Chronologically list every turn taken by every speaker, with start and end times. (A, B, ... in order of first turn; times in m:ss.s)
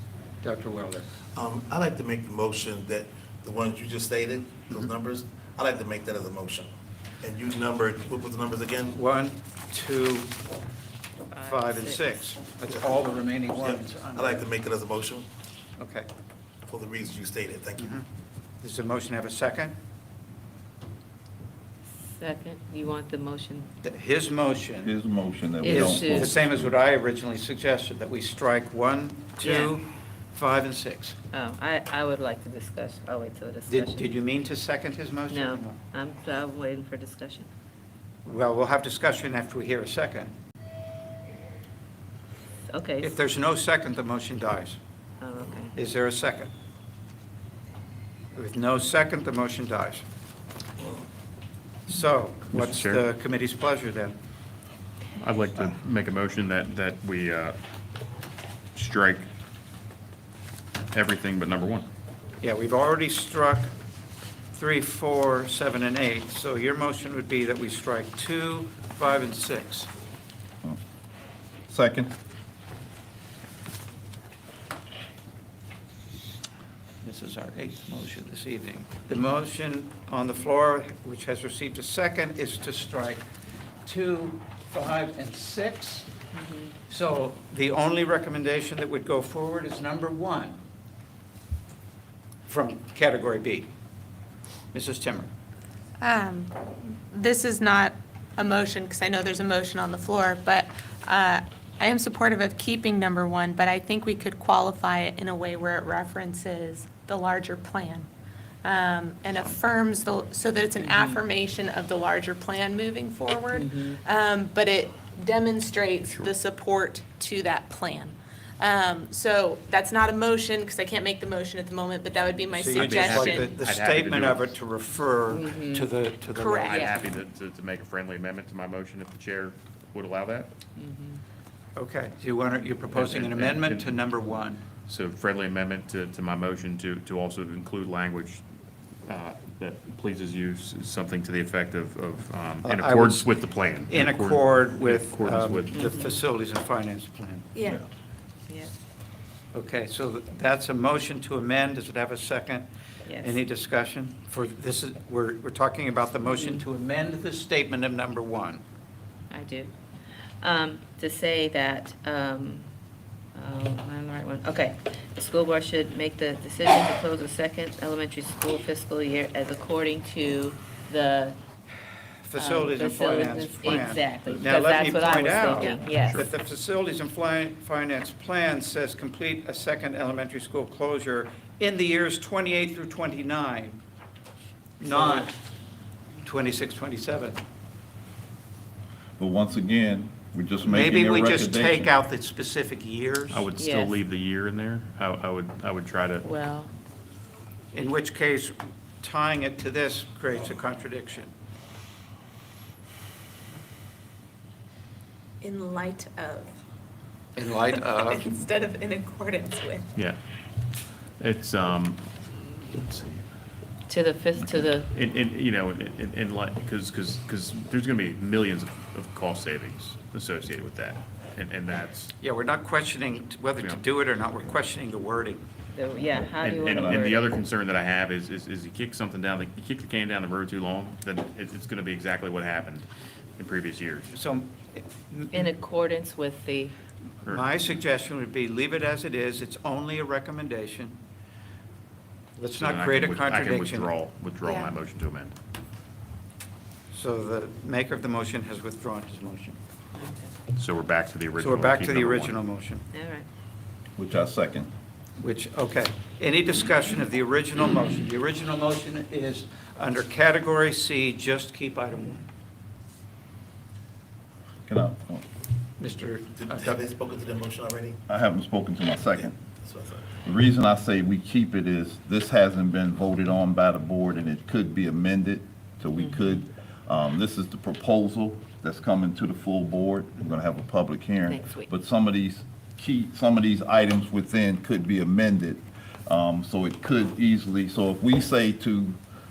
0:00.4-0:01.1 A
0:01.4-0:09.0 B
0:08.9-0:10.3 A
0:11.3-0:12.0 C
0:11.4-0:14.5 A
0:12.7-0:13.0 B
0:13.5-0:15.3 B
0:15.8-0:16.1 A
0:16.7-0:18.0 B
0:17.8-0:18.1 A
0:18.6-0:19.8 A
0:22.1-0:23.7 C
0:23.8-0:24.9 A
0:24.8-0:26.7 D
0:25.6-0:26.4 C
0:25.6-0:31.2 A
0:29.4-0:29.7 C
0:31.3-0:34.2 C
0:33.7-0:35.8 A
0:35.3-0:37.5 C
0:38.2-0:40.3 A
0:42.7-0:43.2 C
0:43.0-0:44.8 A
0:45.2-0:45.8 C
0:45.8-0:46.5 A
0:48.4-0:50.0 A
0:50.8-0:51.1 B
0:51.9-0:54.2 A
0:52.5-0:53.0 E
0:55.2-0:57.6 E
0:58.8-0:59.3 E
1:00.9-1:01.9 E
1:02.4-1:03.7 A
1:04.5-1:09.9 A
1:11.7-1:12.1 D
1:17.0-1:23.2 A
1:23.8-1:26.1 A
1:26.3-1:26.7 C
1:26.9-1:30.6 A
1:32.5-1:33.7 A
1:34.7-1:35.3 A
1:36.0-1:48.1 F
1:48.6-2:03.5 F
1:50.8-1:51.2 C
1:53.5-1:54.0 C
2:02.5-2:06.9 A
2:02.8-2:04.5 E
2:05.3-2:05.9 C
2:06.4-2:06.8 F
2:06.6-2:10.5 E
2:06.7-2:07.0 C
2:10.8-2:11.2 C
2:11.8-2:14.6 A
2:12.9-2:14.0 E
2:14.9-2:18.4 E
2:19.1-2:25.8 E
2:22.6-2:23.3 A
2:23.9-2:27.5 A
2:25.7-2:26.2 C
2:27.6-2:27.8 B
2:29.5-2:32.7 A
2:33.1-2:33.4 C
2:33.2-2:38.6 A
2:36.3-2:36.7 C
2:39.3-2:39.7 C
2:40.4-2:42.7 C
2:43.4-2:51.4 C
2:52.2-3:03.8 A
2:52.4-2:56.2 C
2:56.0-2:56.3 E
3:04.8-3:05.4 A
3:06.2-3:07.4 A
3:09.2-3:11.9 D
3:10.6-3:13.5 A
3:13.3-3:16.3 E
3:13.6-3:14.0 C
3:16.2-3:16.7 C
3:17.7-3:21.3 A
3:25.4-3:26.6 F
3:27.4-3:28.3 A
3:27.4-3:29.9 F
3:30.0-3:30.2 E
3:31.2-3:33.2 E
3:33.9-3:34.9 C
3:34.4-3:42.1 E
3:42.2-3:45.5 A
3:45.7-3:47.3 C
3:46.4-3:54.1 E
3:46.7-3:47.1 D
3:54.1-3:55.5 A
3:55.3-3:56.8 C
3:57.2-3:57.8 E
3:57.3-4:01.0 A
4:02.4-4:03.9 A
4:02.6-4:05.4 E
4:04.4-4:04.7 F
4:06.9-4:09.6 A
4:10.0-4:10.3 C
4:10.5-4:12.4 E
4:11.4-4:12.8 A
4:12.9-4:13.3 C
4:14.0-4:14.7 D
4:15.2-4:22.3 A
4:24.7-4:25.2 D
4:25.8-4:26.9 A
4:26.3-4:28.0 B
4:28.1-4:29.3 D
4:29.1-4:30.1 B
4:30.2-4:49.0 D
4:36.0-4:36.3 C
4:41.3-4:41.7 C